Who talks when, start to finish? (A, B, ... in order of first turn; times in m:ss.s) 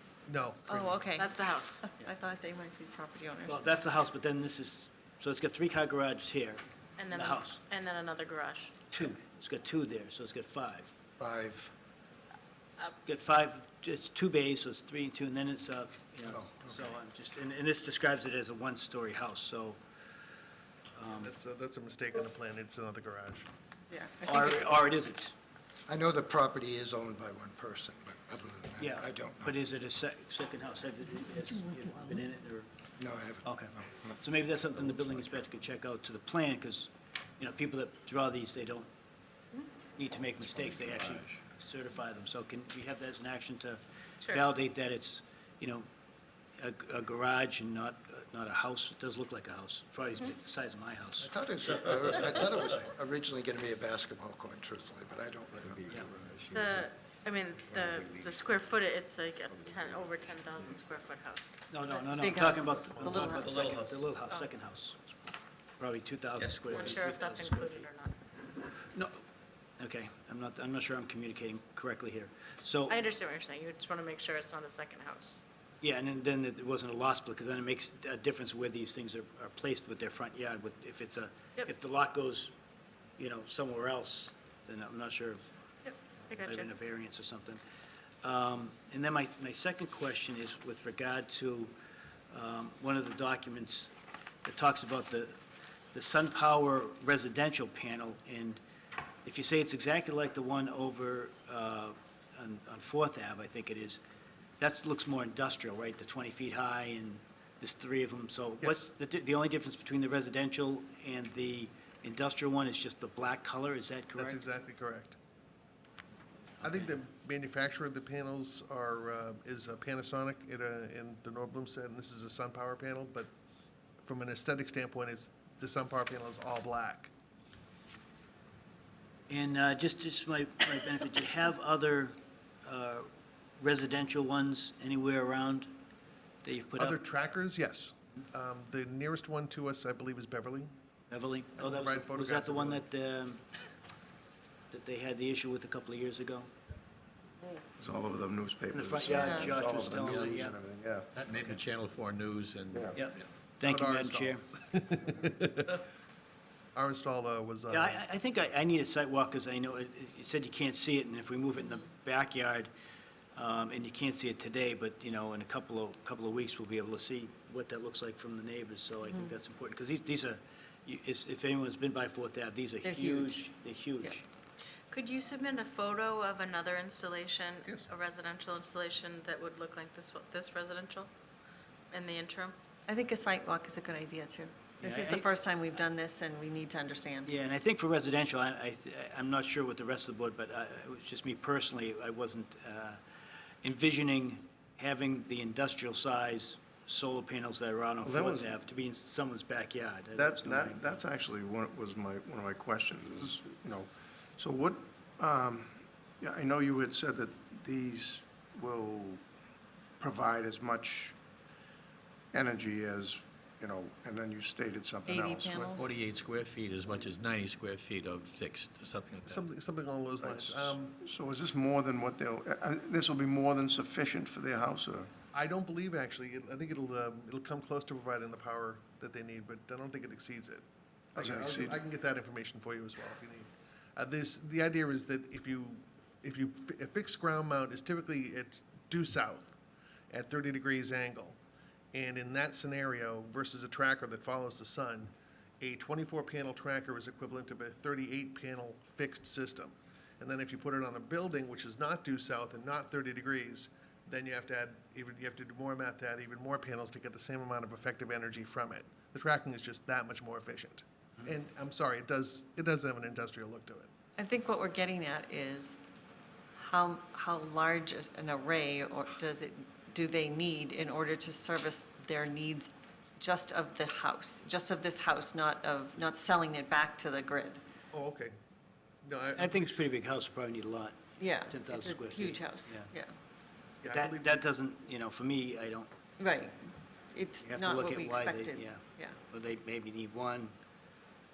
0:00.3-0:01.0 A
0:00.7-0:03.7 B
0:01.2-0:01.8 C
0:03.5-0:06.6 D
0:07.0-0:08.9 C
0:07.1-0:07.6 D
0:08.9-0:10.9 D
0:11.2-0:11.7 E
0:13.1-0:19.8 D
0:16.2-0:16.9 E
0:21.0-0:21.3 D
0:21.1-0:23.5 A
0:23.9-0:24.8 B
0:24.2-0:25.3 D
0:25.9-0:29.6 E
0:28.8-0:32.7 D
0:33.0-0:34.2 E
0:33.4-0:38.9 D
0:40.0-0:45.9 D
0:40.6-0:41.4 F
0:46.6-0:51.3 D
0:51.2-0:56.0 E
0:55.5-0:56.9 F
0:56.5-1:01.6 C
0:57.5-0:58.6 F
0:59.5-1:00.8 F
1:01.7-1:05.2 D
1:01.9-1:03.6 B
1:03.0-1:04.1 F
1:05.8-1:07.9 D
1:06.4-1:07.1 F
1:06.7-1:08.1 C
1:08.9-1:09.2 D
1:09.8-1:13.0 D
1:12.9-1:15.4 C
1:15.8-1:22.5 D
1:23.2-1:25.4 D
1:25.8-1:26.7 C
1:26.4-1:27.6 D
1:28.2-1:31.7 D
1:32.3-1:33.9 D
1:34.4-1:35.4 D
1:35.9-1:38.6 D
1:39.2-1:44.0 D
1:44.6-1:54.4 D
1:54.2-1:55.2 A
1:56.6-2:03.3 A
1:56.6-1:56.9 D
2:04.0-2:07.1 A
2:09.3-2:13.1 D
2:13.6-2:15.7 D
2:16.4-2:17.0 D
2:16.8-2:20.7 A
2:21.1-2:23.4 D
2:21.6-2:22.8 A
2:24.7-2:26.5 D
2:27.8-2:31.1 G
2:28.7-2:30.5 D
2:29.1-2:29.6 B
2:29.9-2:30.5 F
2:31.1-2:33.0 F
2:32.7-2:33.0 G
2:32.9-2:34.4 D
2:33.6-2:35.8 A
2:36.8-2:38.0 A
2:37.7-2:42.7 D
2:43.4-2:54.2 D
2:52.8-2:53.5 B
2:54.9-3:01.1 C
3:01.9-3:02.6 C
3:02.9-3:07.3 B
3:04.8-3:05.3 D
3:07.2-3:13.0 D
3:13.6-3:21.0 D
3:18.0-3:18.6 G
3:20.2-3:29.2 G
3:30.0-3:31.2 G
3:32.3-3:35.8 G
3:35.1-3:35.9 B
3:35.8-3:39.5 F
3:39.2-3:41.0 A
3:40.2-3:45.1 G
3:45.3-3:50.6 A
3:51.2-3:59.6 A
3:51.2-3:51.8 G
4:00.1-4:01.4 A
4:01.9-4:23.9 A
4:24.2-4:25.8 B
4:26.6-4:37.6 B
4:37.9-4:38.4 A
4:39.0-4:39.8 A
4:39.4-4:41.0 D
4:41.2-4:43.1 B
4:41.5-4:42.9 D
4:43.8-4:44.4 A
4:43.9-4:45.9 D
4:46.2-4:46.6 B
4:47.1-4:49.2 B
4:47.4-4:50.5 D